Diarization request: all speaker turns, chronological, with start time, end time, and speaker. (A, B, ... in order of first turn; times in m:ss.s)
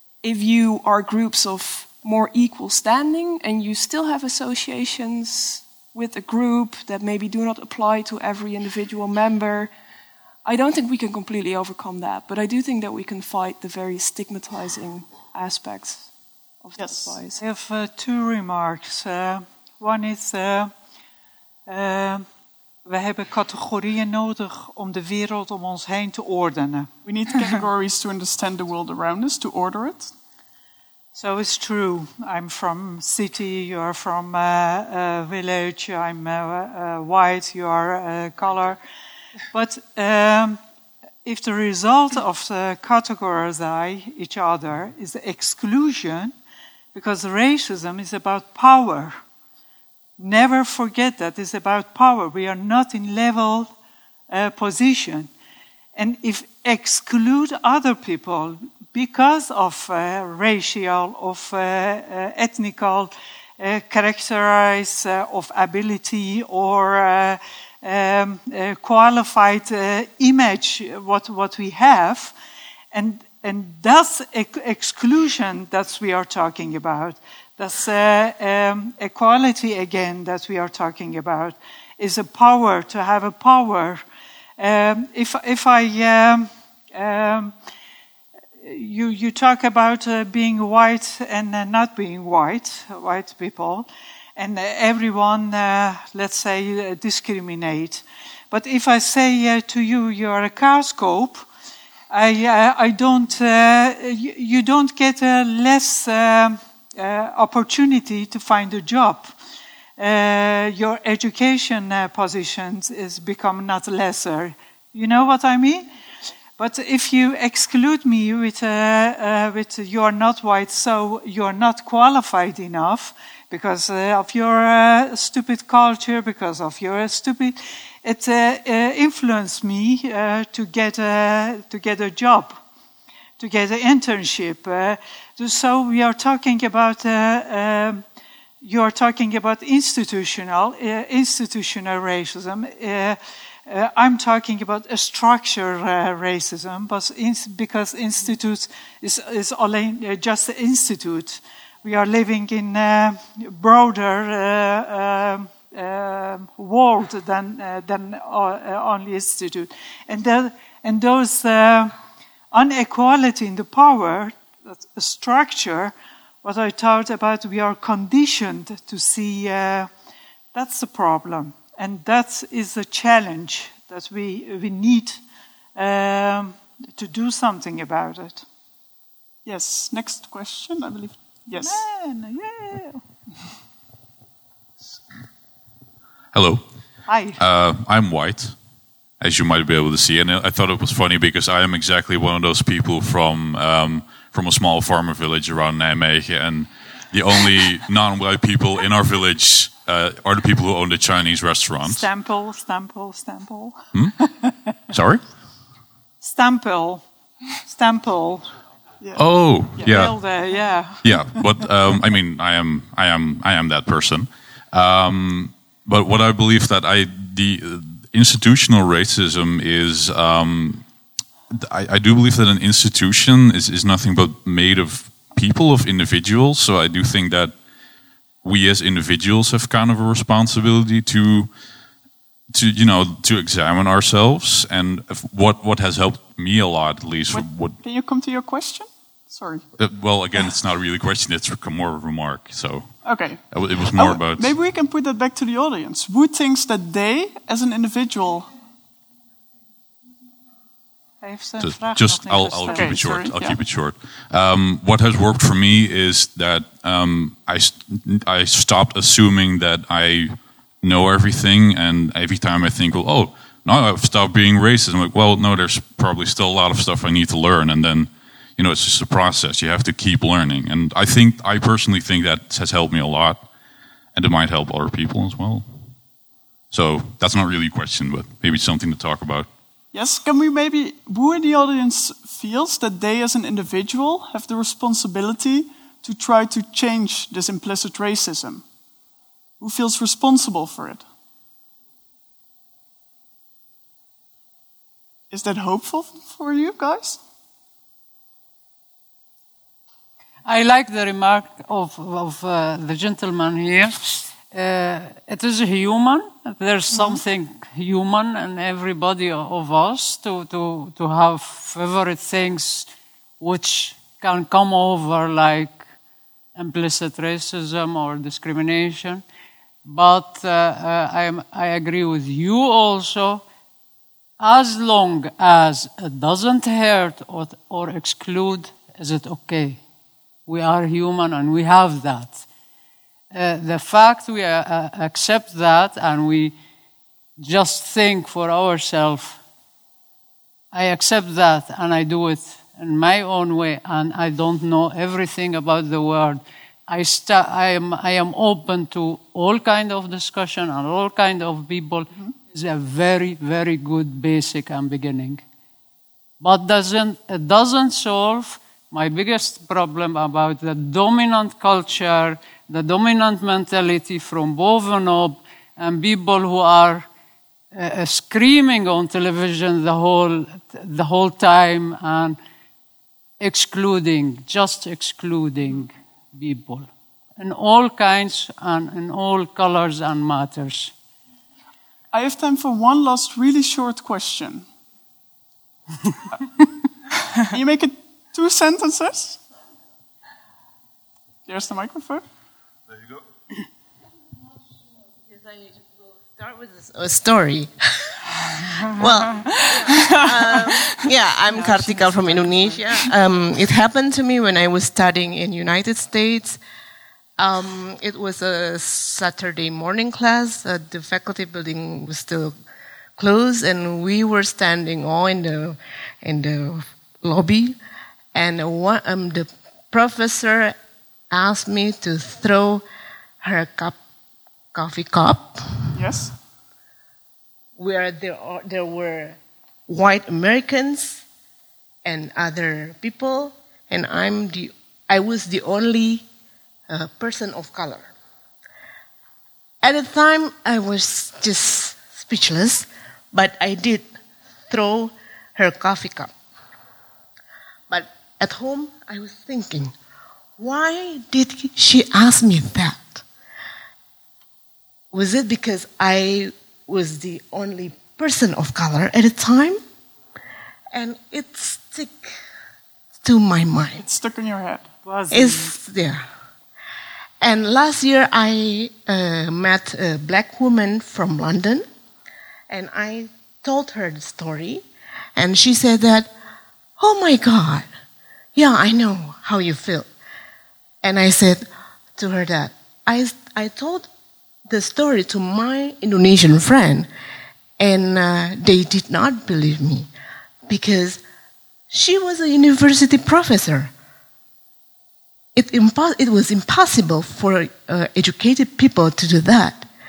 0:00.2-0:09.7 A
0:10.4-0:16.1 A
0:16.6-0:17.4 A
0:16.8-0:17.2 B
0:17.4-0:20.7 C
0:21.7-0:22.2 C
0:22.9-0:26.9 C
0:27.0-0:30.1 B
0:31.2-0:38.8 C
0:39.5-0:40.6 C
0:41.2-0:46.3 C
0:46.9-0:49.2 C
0:50.2-0:53.7 C
0:54.3-0:55.3 C
0:56.0-1:12.3 C
1:12.9-1:24.0 C
1:24.6-1:27.5 C
1:28.6-1:41.5 C
1:42.1-1:49.3 C
1:50.0-1:55.9 C
1:56.6-2:12.6 C
2:13.4-2:18.0 C
2:18.6-2:41.9 C
2:42.5-2:49.9 C
2:50.5-2:55.2 C
2:55.8-2:58.4 C
2:59.4-3:01.8 B
3:01.6-3:03.0 C
3:06.3-3:06.7 D
3:07.1-3:07.4 C
3:07.4-3:08.6 D
3:09.2-3:22.1 D
3:21.8-3:24.8 C
3:24.9-3:25.2 D
3:26.2-3:27.0 C
3:27.6-3:28.5 C
3:29.0-3:29.9 B
3:29.2-3:30.2 D
3:29.8-3:31.0 C
3:31.0-3:40.9 D
3:41.5-3:47.6 D
3:48.4-3:51.5 D
3:52.5-3:57.8 D
3:57.3-3:59.7 B
3:59.8-4:04.6 D
4:03.0-4:08.5 B
4:11.2-4:13.4 C
4:11.6-4:33.4 D
4:12.7-4:13.6 B
4:34.1-4:35.7 D
4:36.7-4:39.5 D
4:39.9-4:48.6 B
4:49.6-4:51.0 B
4:55.3-4:57.2 B
5:00.4-5:15.8 E
5:06.9-5:07.2 B
5:16.6-5:19.2 E
5:19.8-5:23.4 E
5:24.4-5:29.8 E
5:30.5-5:32.4 E
5:33.3-5:36.6 E
5:37.4-5:39.4 E
5:40.7-5:55.4 E
5:56.4-6:07.1 E
6:07.7-6:12.4 E
6:13.4-6:20.9 E
6:22.1-6:24.7 B
6:27.5-6:29.4 B
6:31.5-6:32.2 B
6:35.2-6:37.7 F
6:38.8-6:46.6 F
6:39.0-6:41.0 C
6:41.5-6:43.0 C
6:47.4-6:52.6 F
6:53.2-6:57.8 F
6:58.3-7:00.8 F
7:01.3-7:02.8 F
7:03.4-7:04.0 F
7:04.7-7:05.8 F
7:05.9-7:06.3 B
7:07.8-7:11.2 F
7:12.0-7:16.3 F
7:16.9-7:18.1 F
7:19.8-7:24.1 F
7:24.7-7:26.3 F
7:27.9-7:29.9 F
7:30.6-7:33.2 F
7:35.1-7:39.8 F
7:40.9-7:42.3 F
7:43.2-7:44.0 F
7:44.0-7:44.9 B
7:45.0-7:45.8 C
7:45.3-7:46.2 F
7:47.4-7:51.9 F
7:52.7-7:54.8 F
7:55.4-7:56.3 F
7:57.0-7:57.9 F
7:58.6-8:00.1 F
8:01.0-8:04.1 F
8:04.7-8:07.1 F
8:07.8-8:10.1 F
8:10.7-8:11.2 F
8:11.9-8:13.9 F
8:15.6-8:19.9 F